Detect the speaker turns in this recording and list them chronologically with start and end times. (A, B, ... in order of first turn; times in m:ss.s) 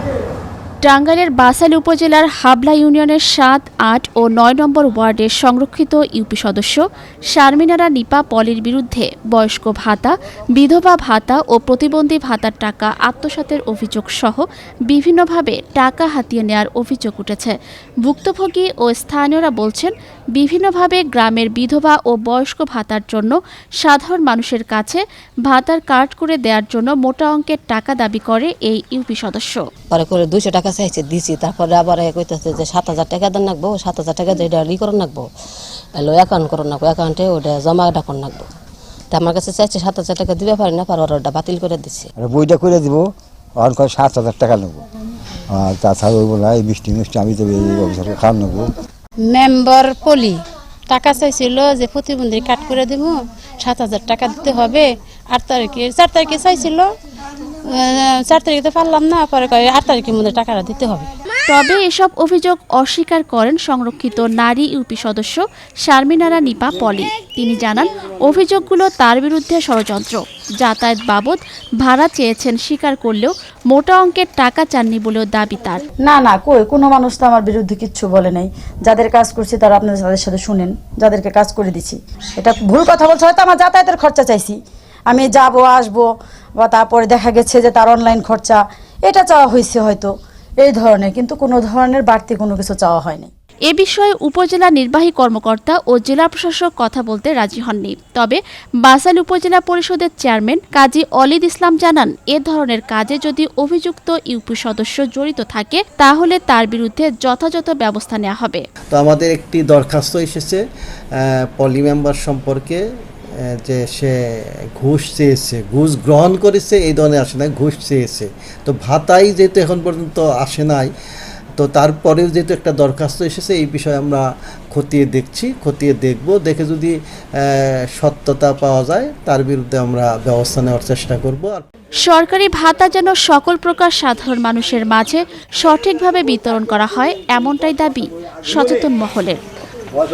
0:00.8-0:29.6 A
0:29.9-0:35.3 B
0:36.0-0:38.5 B
0:39.1-0:42.1 B
0:42.2-0:43.1 C
0:43.6-0:44.8 C
0:45.5-0:48.7 C
0:49.2-0:50.4 D
0:50.9-0:56.9 D
0:57.7-1:01.1 D
1:01.5-1:15.8 A
1:16.0-1:24.6 E
1:25.1-1:26.1 E
1:26.6-1:33.3 E
1:33.7-1:48.6 A
1:48.9-1:50.6 F
1:51.2-1:52.8 F
1:53.6-1:54.1 F
1:54.8-2:00.9 F
2:01.6-2:11.6 F
2:12.0-2:19.4 A